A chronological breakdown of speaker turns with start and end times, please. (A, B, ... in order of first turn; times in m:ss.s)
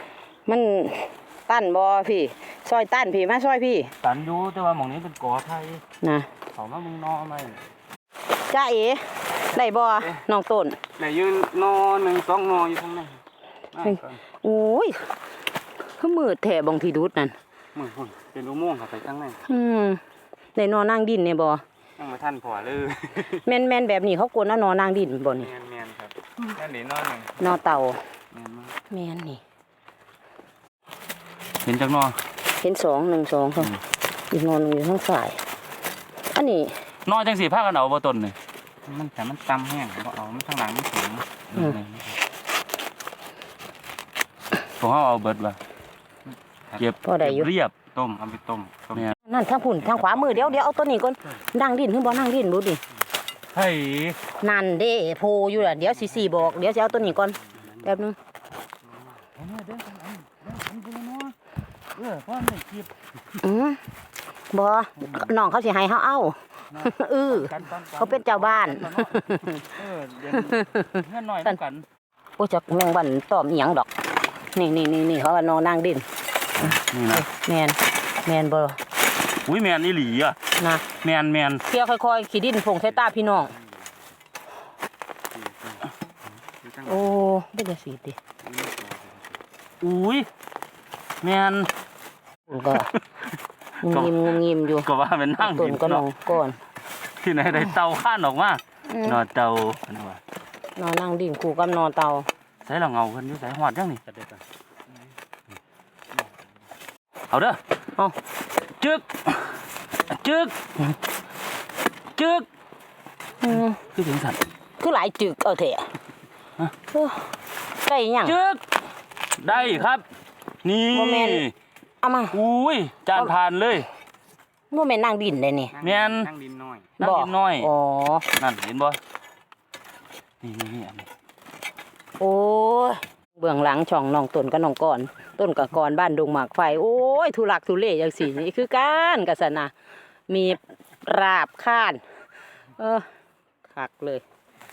0:00.5-0:03.9 A
0:04.0-0:05.8 B
0:06.0-0:06.3 A
0:06.5-0:07.6 B
0:08.5-0:10.8 A
0:11.0-0:13.2 C
0:13.7-0:14.2 C
0:13.8-0:15.1 A
0:16.0-0:17.3 A
0:17.7-0:19.4 C
0:19.4-0:20.0 A
0:20.6-0:21.6 A
0:22.0-0:23.4 C
0:23.4-0:25.5 A
0:25.3-0:27.4 C
0:27.4-0:28.0 A
0:28.3-0:28.8 C
0:28.9-0:29.4 A
0:31.6-0:32.2 B
0:32.6-0:33.8 A
0:34.3-0:35.4 A
0:36.3-0:36.8 A
0:37.0-0:38.4 B
0:38.8-0:42.1 C
0:44.8-0:45.6 B
0:46.8-0:47.7 B
0:47.0-0:47.5 A
0:47.9-0:49.1 C
0:49.2-0:52.8 A
0:53.5-0:54.2 B
0:54.4-0:58.2 A
0:57.5-0:57.9 C
0:58.8-0:59.2 C
0:59.4-1:01.4 B
1:01.9-1:02.9 B
1:03.4-1:03.8 A
1:04.5-1:09.6 A
1:06.8-1:11.8 B
1:12.4-1:13.9 A
1:14.5-1:16.0 A
1:16.6-1:18.8 A
1:16.6-1:17.2 B
1:19.4-1:20.4 B
1:20.6-1:20.8 A
1:21.0-1:21.6 B
1:21.7-1:23.5 A
1:23.0-1:23.8 C
1:25.3-1:25.8 C
1:26.5-1:27.1 C
1:26.9-1:28.2 A
1:28.4-1:29.4 C
1:29.8-1:30.3 B
1:31.2-1:31.7 B
1:32.5-1:32.9 A
1:33.8-1:34.9 A
1:33.8-1:36.0 B
1:35.4-1:36.6 A
1:37.2-1:40.2 B
1:38.9-1:39.2 A
1:40.8-1:42.2 A
1:42.6-1:44.0 B
1:44.1-1:44.4 C
1:47.3-1:47.6 B
1:48.8-1:50.6 B
1:52.2-1:52.5 B
1:53.4-1:53.8 A
1:53.8-1:54.4 B
1:54.8-1:55.9 A
1:56.9-1:57.3 A
1:57.8-1:58.4 A
1:58.2-1:58.6 B
1:59.4-2:00.0 B
2:00.6-2:01.5 B
2:00.9-2:01.4 A
2:02.0-2:02.4 A
2:02.3-2:03.9 B
2:04.7-2:05.7 A
2:05.7-2:06.9 C
2:05.8-2:06.3 B
2:07.0-2:07.7 B
2:07.0-2:08.2 A
2:08.3-2:09.0 B
2:10.4-2:11.1 B
2:12.2-2:19.7 A
2:20.3-2:22.0 A
2:22.8-2:23.1 A
2:23.7-2:24.2 A